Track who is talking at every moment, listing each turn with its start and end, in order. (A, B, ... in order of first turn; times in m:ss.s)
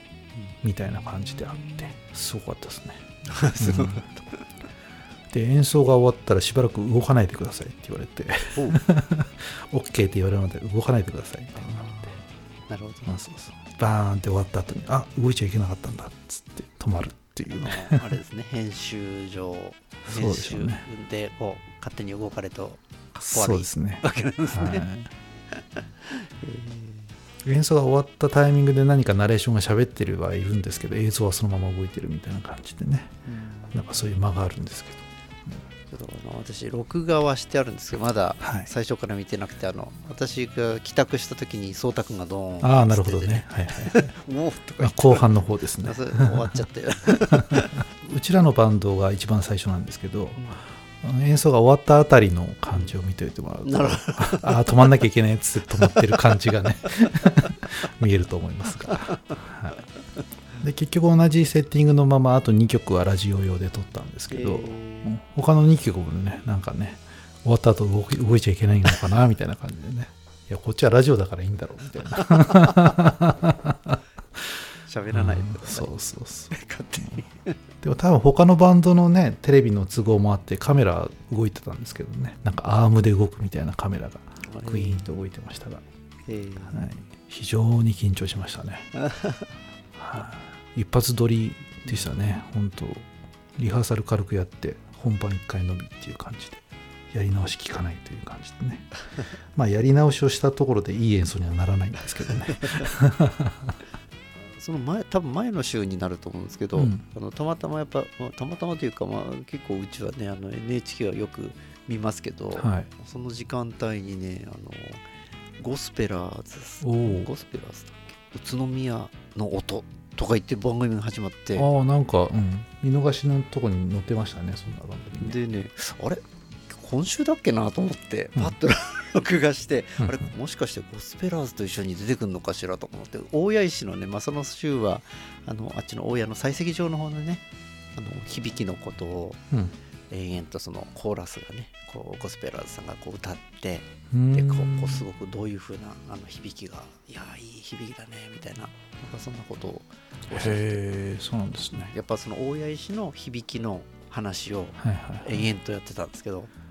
0:00.4-0:01.9 A
0:00.6-0:03.0 B
0:03.3-0:04.5 A
0:03.6-0:04.1 B
0:05.3-0:12.2 B
0:08.5-0:08.8 A
0:11.6-0:12.2 A
0:12.7-0:13.1 A
0:13.1-0:18.1 B
0:17.5-0:24.9 A
0:20.0-0:20.9 B
0:23.2-0:25.1 B
0:25.5-0:27.2 A
0:27.4-0:33.1 B
0:33.3-0:34.2 A
0:33.7-0:35.6 B
0:35.9-0:47.8 A
0:38.4-0:38.7 B
0:42.6-0:44.1 B
0:44.8-0:46.5 B
0:47.3-0:50.5 B
0:50.4-0:50.6 A
0:51.0-0:59.8 B
0:52.7-0:53.0 A
0:53.6-0:55.0 A
0:55.8-0:56.2 A
0:58.8-0:59.1 A
1:00.6-1:14.0 B
1:04.3-1:05.2 A
1:12.2-1:12.7 A
1:14.9-1:17.6 A
1:15.1-1:17.2 B
1:17.8-1:25.8 B
1:24.4-1:25.1 A
1:26.3-1:26.9 A
1:26.7-1:28.9 B
1:29.0-1:29.5 A
1:30.0-1:38.9 B
1:31.8-1:32.1 A
1:39.6-1:43.8 B
1:42.2-1:42.9 A
1:44.4-1:55.0 A
1:46.7-1:47.0 B
1:52.6-1:52.9 B
1:55.6-2:01.7 A
1:56.8-1:57.3 B
2:01.6-2:05.4 B
2:05.2-2:17.4 A
2:10.0-2:10.3 B
2:18.0-2:19.4 A
2:20.1-2:30.8 A
2:24.1-2:25.1 B
2:30.3-2:31.9 B
2:31.7-2:36.5 A
2:34.8-2:35.5 B